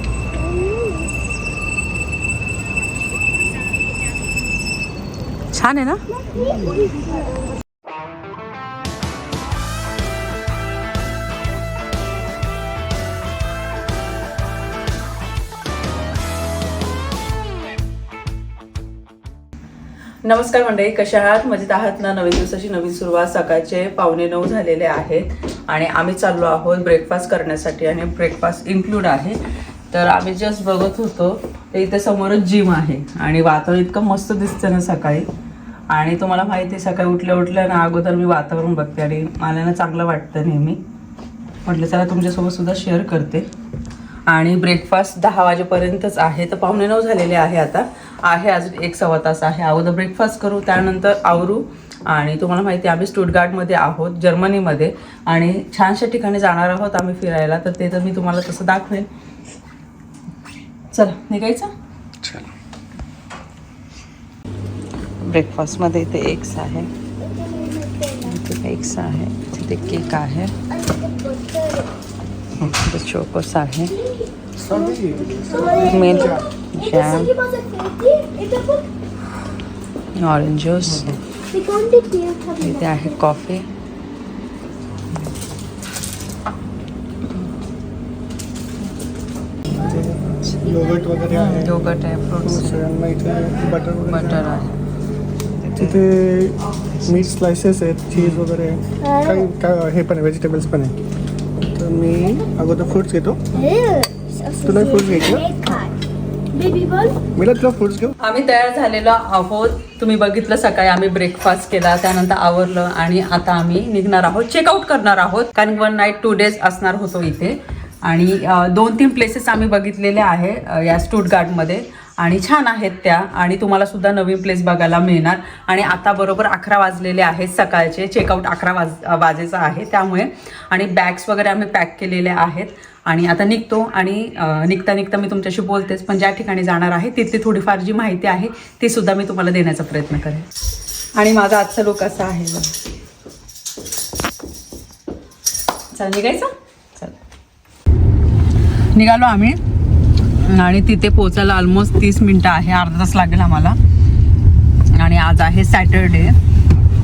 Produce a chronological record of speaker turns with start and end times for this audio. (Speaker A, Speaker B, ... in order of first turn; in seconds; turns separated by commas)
Speaker A: 0.3-1.1, Speaker B: 5.5-6.0, Speaker A: 6.1-7.5, Speaker B: 20.2-29.4, Speaker B: 29.9-35.3, Speaker B: 35.9-40.8, Speaker B: 41.6-43.5, Speaker B: 44.3-59.1, Speaker B: 60.9-61.7, Speaker C: 62.2-62.5, Speaker B: 65.2-66.9, Speaker A: 67.2-68.4, Speaker B: 68.2-70.5, Speaker A: 70.6-71.9, Speaker B: 72.8-73.9, Speaker A: 73.9-78.9, Speaker C: 74.6-76.5, Speaker B: 75.9-77.3, Speaker B: 80.2-81.1, Speaker C: 80.9-81.2, Speaker A: 81.5-83.2, Speaker B: 82.6-83.7, Speaker C: 89.8-91.8, Speaker B: 91.3-92.9, Speaker C: 92.4-94.6, Speaker B: 94.1-94.7, Speaker B: 95.6-96.0, Speaker C: 95.8-101.0, Speaker B: 98.2-98.4, Speaker A: 99.0-99.5, Speaker C: 101.6-103.4, Speaker A: 103.5-106.0, Speaker C: 104.6-105.7, Speaker A: 106.5-107.2, Speaker C: 107.3-108.2, Speaker B: 108.2-140.5, Speaker B: 141.2-142.7, Speaker B: 145.9-147.2, Speaker B: 148.9-149.6, Speaker B: 150.4-153.8, Speaker B: 154.9-156.4